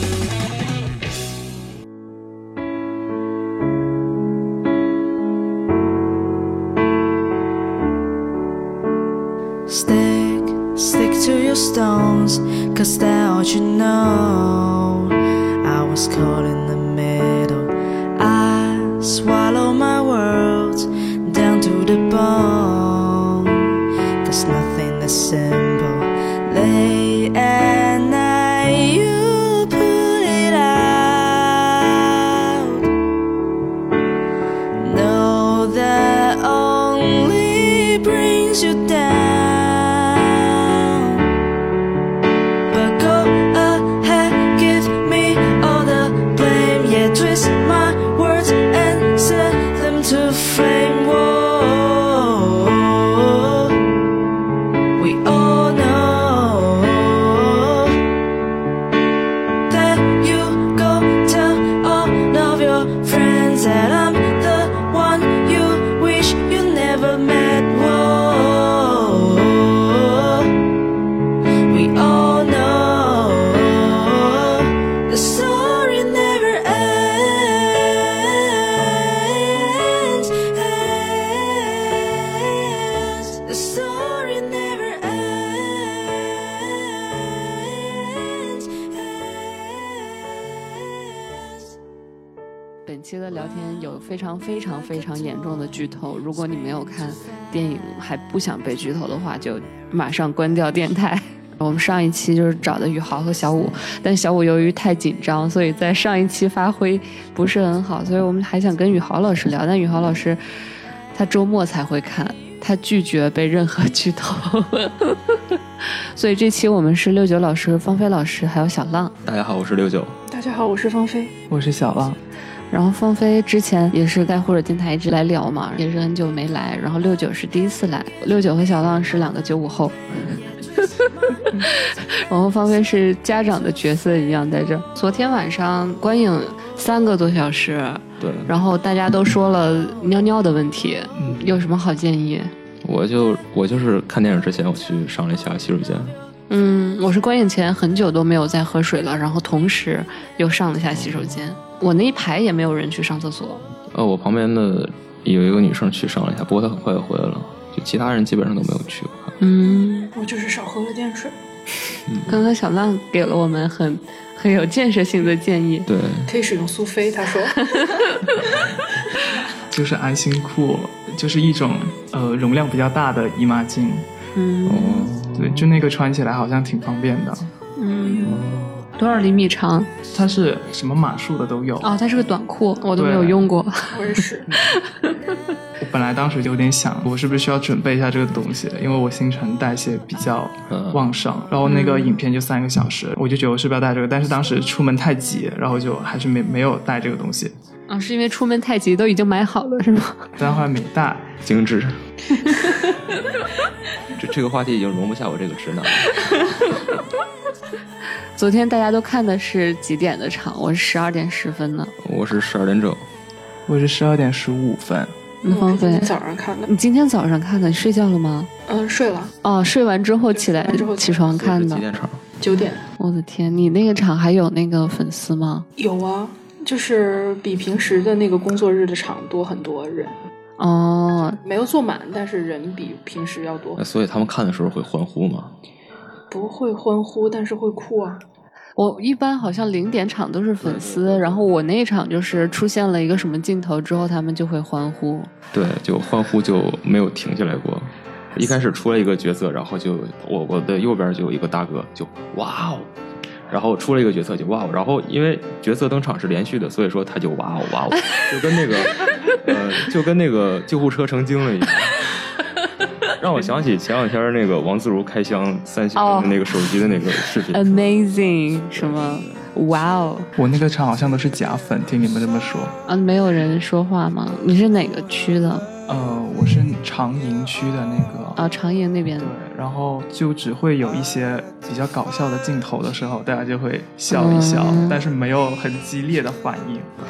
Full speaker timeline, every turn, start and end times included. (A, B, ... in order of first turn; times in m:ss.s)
0:09.7-0:23.7 A
0:24.2-0:32.9 A
0:34.8-0:41.3 A
0:42.7-0:53.8 A
0:55.0-0:58.0 A
0:59.7-1:10.5 A
1:11.7-1:31.5 A
1:32.8-1:50.4 B
1:51.1-1:59.2 B
1:59.2-2:00.2 C
2:00.3-2:01.4 D
2:01.5-2:02.2 E
2:02.7-2:10.0 B
2:10.8-2:22.5 B
2:18.2-2:18.5 C
2:21.2-2:21.6 E
2:22.8-2:26.2 C
2:26.5-2:33.6 B
2:33.9-2:39.4 C
2:39.4-2:40.1 B
2:40.2-2:41.4 D
2:42.1-2:42.4 C
2:42.3-2:45.9 B
2:45.9-2:46.3 C
2:46.3-2:47.7 D
2:47.7-2:48.4 B
2:49.7-2:54.1 E
2:54.4-2:55.1 B
2:54.7-2:55.8 C
2:55.3-2:57.5 E
2:57.8-2:58.3 B
2:58.0-2:58.4 D
2:58.2-2:58.9 C
2:59.0-2:59.9 B
3:00.1-3:01.9 E
3:01.8-3:04.0 B
3:03.0-3:03.5 E
3:03.9-3:04.5 D
3:04.6-3:05.2 B
3:05.8-3:17.5 E
3:10.7-3:11.1 C
3:11.6-3:12.1 B
3:17.9-3:20.3 B
3:20.4-3:21.3 E
3:21.4-3:22.0 C
3:22.4-3:23.0 B
3:24.1-3:26.3 C
3:26.2-3:26.5 B
3:28.4-3:31.9 B
3:32.0-3:33.0 C
3:33.7-3:35.1 E
3:35.4-3:36.1 B
3:35.5-3:36.7 D
3:36.7-3:38.5 B
3:38.7-3:39.4 D
3:39.4-3:41.8 B
3:40.3-3:41.3 D
3:41.3-3:42.2 C
3:42.4-3:42.8 D
3:43.0-3:45.7 B
3:45.8-3:50.2 D
3:50.6-3:51.4 B
3:51.4-3:53.8 D
3:53.8-3:55.5 C
3:56.3-3:58.2 D
3:58.8-4:05.3 B
4:00.6-4:01.4 C
4:05.5-4:12.9 C
4:13.5-4:22.1 C
4:23.1-4:27.8 C
4:26.0-4:26.4 B
4:27.5-4:30.3 B
4:28.7-4:29.4 C
4:30.4-4:32.8 E
4:32.9-4:35.7 B
4:35.9-4:38.4 E
4:38.4-4:39.3 B
4:39.2-4:46.9 E
4:44.1-4:45.0 B